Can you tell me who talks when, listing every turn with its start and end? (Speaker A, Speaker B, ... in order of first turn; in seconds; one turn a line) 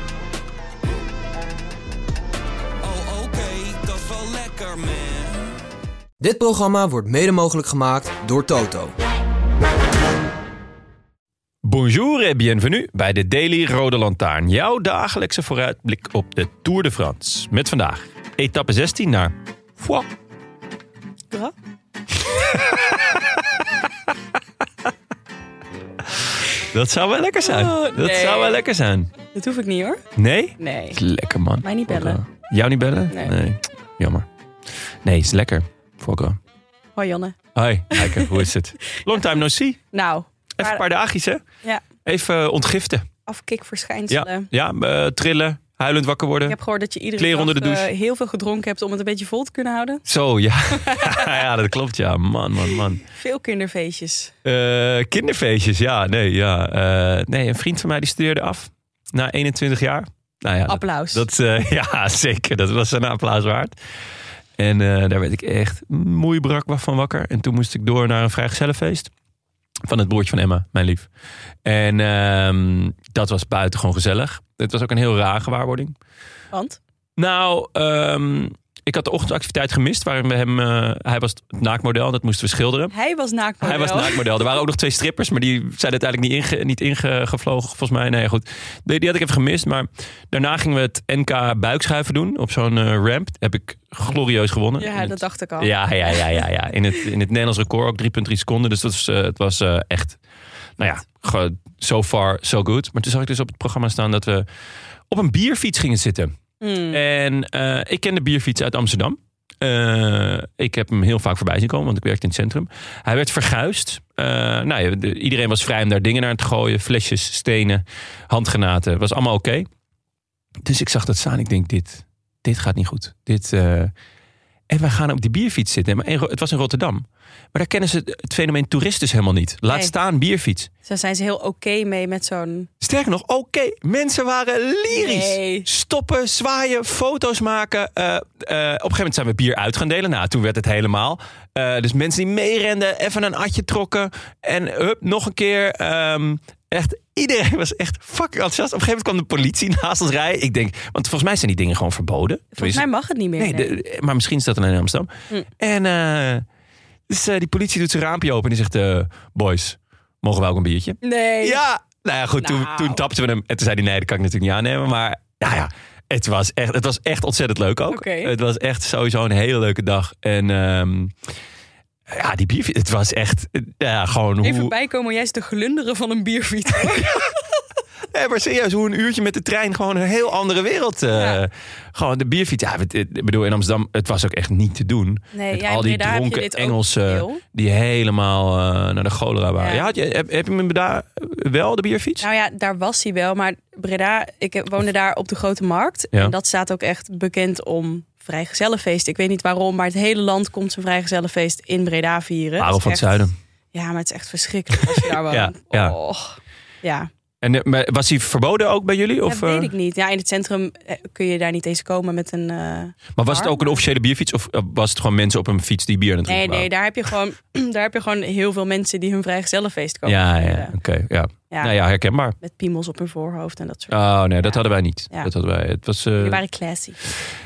Speaker A: 2.8-5.6
Speaker B: 6.2-8.9
Speaker C: 11.6-20.1
Speaker C: 22.3-23.7
Speaker C: 26.6-29.1
Speaker D: 27.4-28.6
Speaker D: 29.3-30.0
Speaker C: 30.1-34.2
Speaker D: 30.6-31.0
Speaker D: 31.6-32.2
Speaker D: 33.1-33.3
Speaker C: 35.0-36.4
Speaker D: 37.0-37.4
Speaker C: 37.5-39.8
Speaker D: 37.9-38.4
Speaker D: 39.9-40.8
Speaker C: 40.6-41.4
Speaker C: 42.0-43.0
Speaker D: 43.2-44.5
Speaker C: 44.1-46.6
Speaker D: 46.5-50.0
Speaker C: 47.2-47.9
Speaker C: 50.0-53.0
Speaker D: 50.7-51.5
Speaker D: 53.1-54.3
Speaker C: 54.4-63.7
Speaker D: 60.7-61.2
Speaker C: 64.6-69.1
Speaker C: 69.8-71.1
Speaker C: 71.6-75.9
Speaker D: 76.5-76.8
Speaker C: 77.2-82.9
Speaker D: 82.9-84.3
Speaker C: 83.6-100.2
Speaker D: 94.8-96.4
Speaker C: 100.8-104.5
Speaker C: 105.1-106.3
Speaker D: 106.6-107.0
Speaker C: 106.9-119.7
Speaker C: 120.6-123.9
Speaker C: 124.7-130.7
Speaker D: 129.7-129.9
Speaker D: 130.8-132.7
Speaker C: 132.8-152.9
Speaker D: 134.9-135.7
Speaker D: 152.6-153.7
Speaker C: 153.4-156.4
Speaker C: 157.1-171.1
Speaker D: 161.0-161.6
Speaker D: 162.4-163.0
Speaker D: 167.9-168.3
Speaker C: 172.1-174.7
Speaker D: 174.4-177.2
Speaker C: 176.8-177.3
Speaker C: 178.1-192.2
Speaker D: 181.1-181.4
Speaker D: 185.3-187.4
Speaker D: 189.6-189.9
Speaker D: 192.2-207.1
Speaker C: 202.6-203.3
Speaker C: 204.8-205.9
Speaker C: 207.4-209.7
Speaker D: 209.2-213.8
Speaker C: 213.2-216.7
Speaker D: 216.2-220.7
Speaker C: 220.0-222.3
Speaker D: 221.5-221.8
Speaker D: 222.4-225.3
Speaker C: 223.9-226.4
Speaker D: 226.2-227.0